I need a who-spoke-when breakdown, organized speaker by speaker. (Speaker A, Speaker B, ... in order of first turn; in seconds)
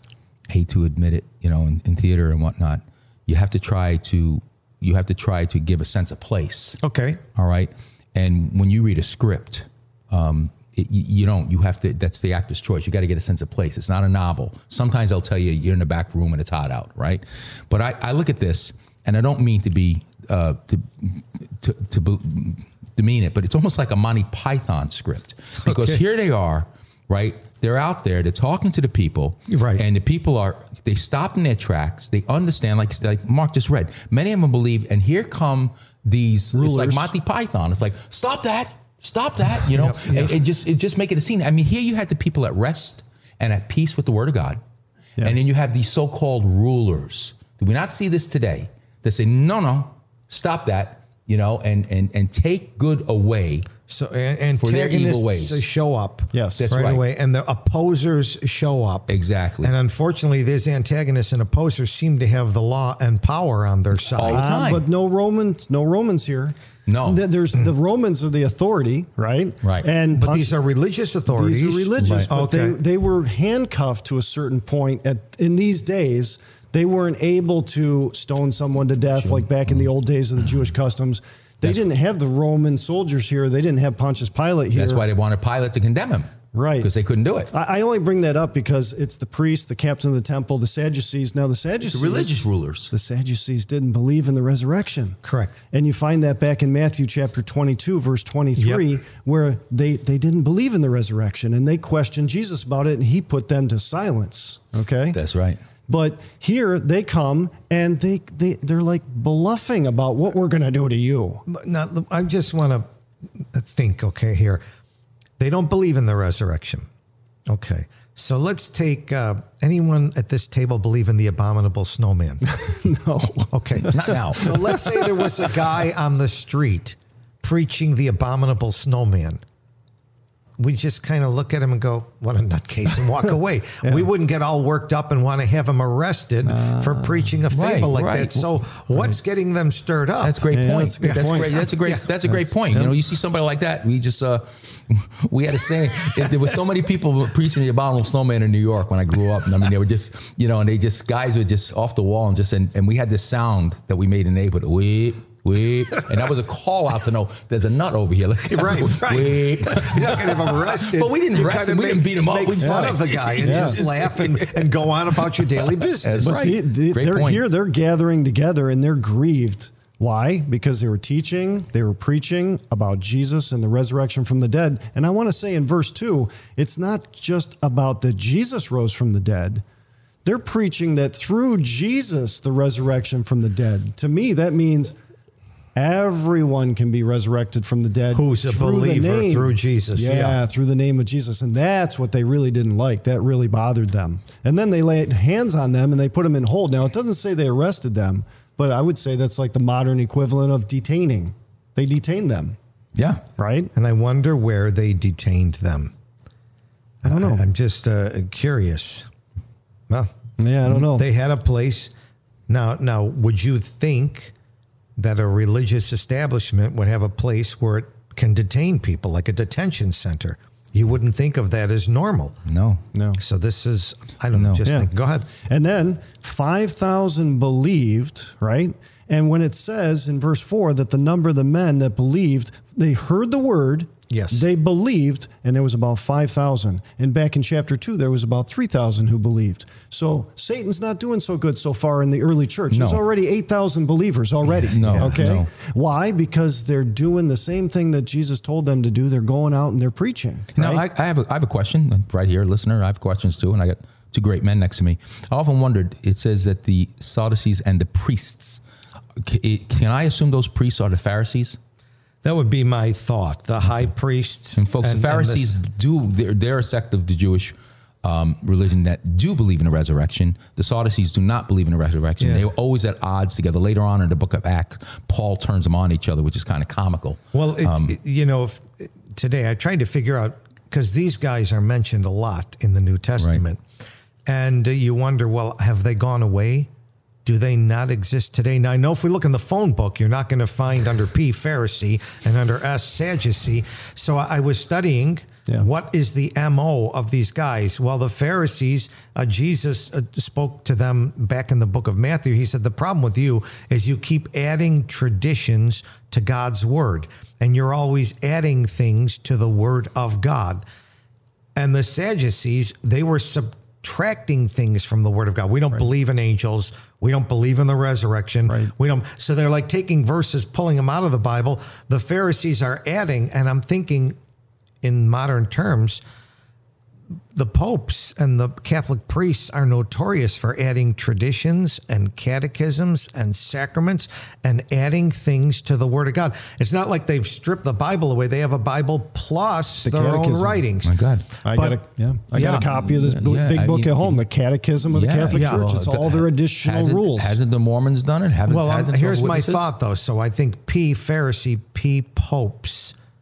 Speaker A: 0.5-6.8, 7.3-44.6, 45.2-53.7, 54.5-55.6, 56.6-57.0, 59.1-59.7, 64.1-64.8, 66.9-67.3, 69.6-69.9, 72.0-72.3, 79.2-79.9, 84.7-87.5, 91.9-92.9, 105.1-105.6, 123.9-124.6, 137.5-138.5, 140.2-164.7, 165.4-167.4, 202.9-203.2, 222.4-222.8, 224.3-224.7, 242.7-243.0, 244.5-245.5, 250.6-258.6, 259.2-261.6, 264.6-277.9, 340.8-341.3, 342.4-344.2, 344.9-349.6
Speaker B: 6.8-7.2, 25.6-26.0, 29.5-29.8, 39.7-40.4, 53.9-64.5, 70.1-72.8, 95.2-95.5, 98.5-98.8, 111.5-114.6, 115.4-116.9, 117.5-122.6, 123.5-129.4, 130.6-140.4, 141.0-142.0, 158.5-166.4, 188.1-190.4, 203.7-205.9, 207.0-209.1, 210.8-211.9, 212.5-214.3, 215.0-222.4, 223.2-225.3, 234.1-234.5, 244.8-245.2, 262.2-265.6, 272.2-272.4, 277.3-283.6, 284.2-286.7, 287.2-310.6, 311.6-324.1, 324.8-326.0, 327.3-341.8, 342.3-342.7, 345.3-345.6, 348.5-352.9
Speaker C: 36.5-37.1, 56.3-56.6, 64.2-70.5, 71.2-85.0, 86.5-86.9, 87.5-95.2, 95.7-105.2, 105.9-111.4, 122.4-125.4, 136.4-137.2, 140.5-141.5, 142.3-142.9, 162.6-163.8, 166.2-179.6, 180.2-184.9, 185.8-202.6, 203.4-203.7, 207.1-207.4, 210.4-211.1, 222.9-223.2, 224.6-224.9, 225.4-250.8, 318.5-318.7, 339.8-340.6, 341.4-347.4